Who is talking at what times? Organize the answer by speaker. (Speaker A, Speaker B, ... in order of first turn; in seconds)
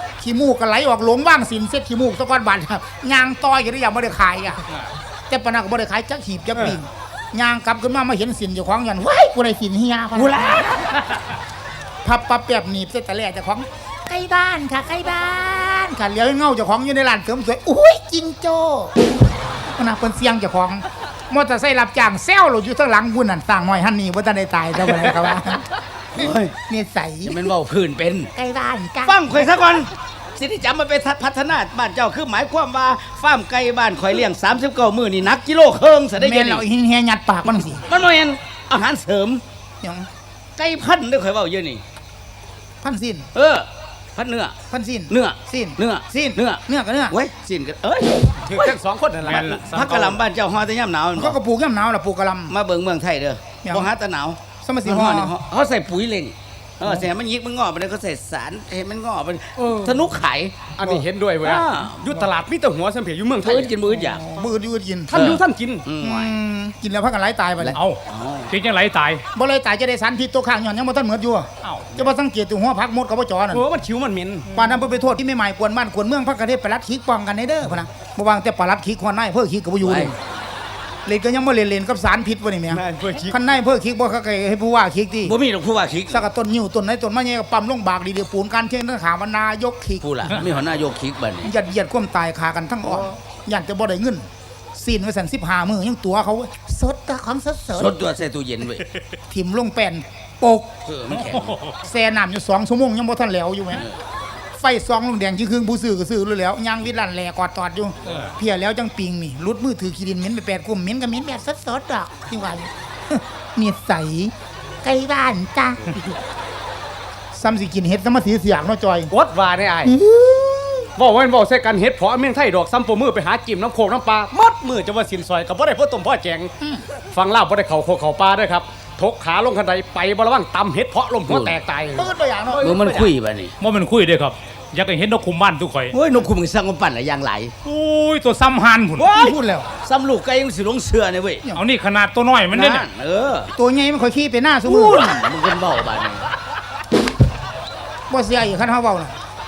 Speaker A: 0.2-4.6, 5.3-10.7, 12.0-18.9, 19.8-25.6, 26.2-27.4, 28.3-29.5, 36.2-37.8, 39.8-40.1, 42.8-43.3, 44.7-47.1, 51.1-52.5, 53.6-53.9, 54.6-55.3, 56.8-57.1, 63.9-65.2, 66.0-67.8, 69.3-73.7, 74.5-80.2, 81.0-85.3, 86.1-90.0, 91.4-98.0, 99.3-100.7, 101.8-103.8, 104.5-116.0, 117.3-119.1, 119.8-120.9, 126.6-126.8, 131.9-132.8, 139.1-139.7, 143.6-145.2, 148.1-149.1
Speaker B: 10.2-11.0, 26.1-26.5, 27.2-28.3, 29.0-36.6, 37.8-39.4, 40.6-41.8, 43.3-44.5, 45.1-48.7, 49.7-51.4, 52.5-60.7, 61.4-62.1, 63.4-64.2, 65.2-66.3, 67.6-68.5, 79.8-80.1, 85.2-86.3, 90.0-91.5, 97.7-98.8, 100.8-101.6, 131.3-131.6, 132.6-133.5, 135.9-137.5, 139.0-141.4, 142.5-143.5, 144.6-146.2
Speaker C: 48.4-49.6, 59.6-60.0, 60.8-63.7, 65.1-65.8, 73.5-74.5, 82.7-83.4, 119.1-120.0, 121.0-126.5, 127.1-133.1
Speaker D: 49.2-50.2, 67.7-69.2, 71.6-72.0, 101.1-101.8, 108.0-108.3, 133.6-135.9, 137.6-139.1, 141.5-142.8